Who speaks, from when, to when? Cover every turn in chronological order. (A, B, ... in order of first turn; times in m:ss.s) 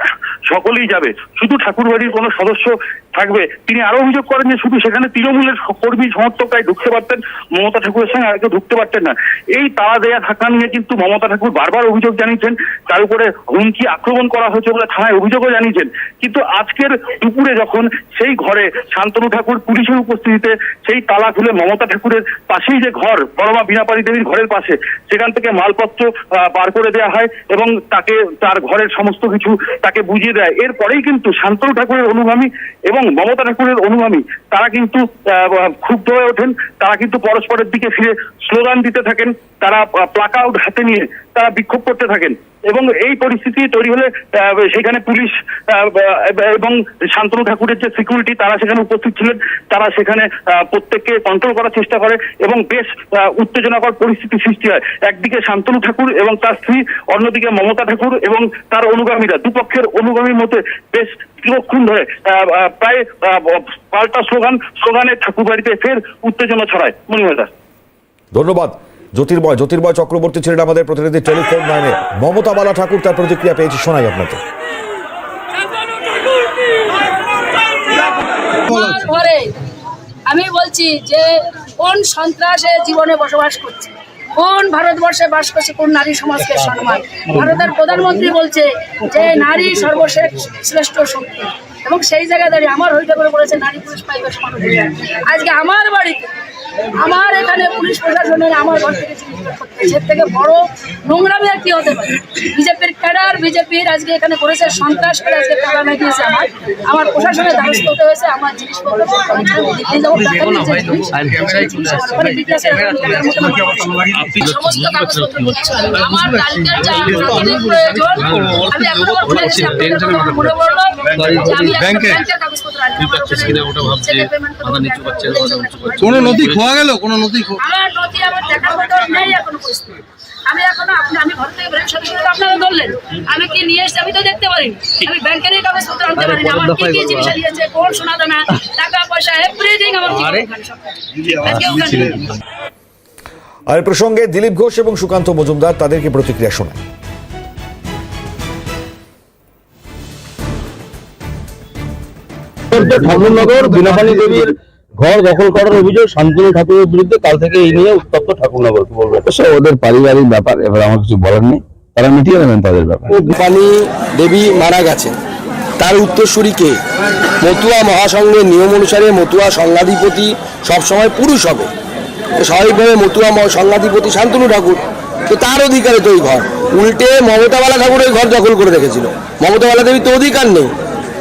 0:00.5-1:07.5 A
1:08.3-1:14.4 B
1:18.7-1:19.6 C
1:20.3-1:36.3 C
1:37.0-2:06.6 C
1:50.6-1:52.2 D
1:54.0-1:55.0 D
1:58.2-2:00.4 D
2:01.2-2:01.9 D
2:03.1-2:07.5 D
2:07.6-2:22.3 C
2:16.4-2:17.0 D
2:23.7-2:26.8 B
2:32.7-2:39.4 E
2:33.0-2:33.3 F
2:33.5-2:34.1 G
2:39.2-2:43.2 G
2:43.1-2:45.2 F
2:45.8-2:46.8 F
2:47.4-2:51.7 F
2:52.4-3:00.7 F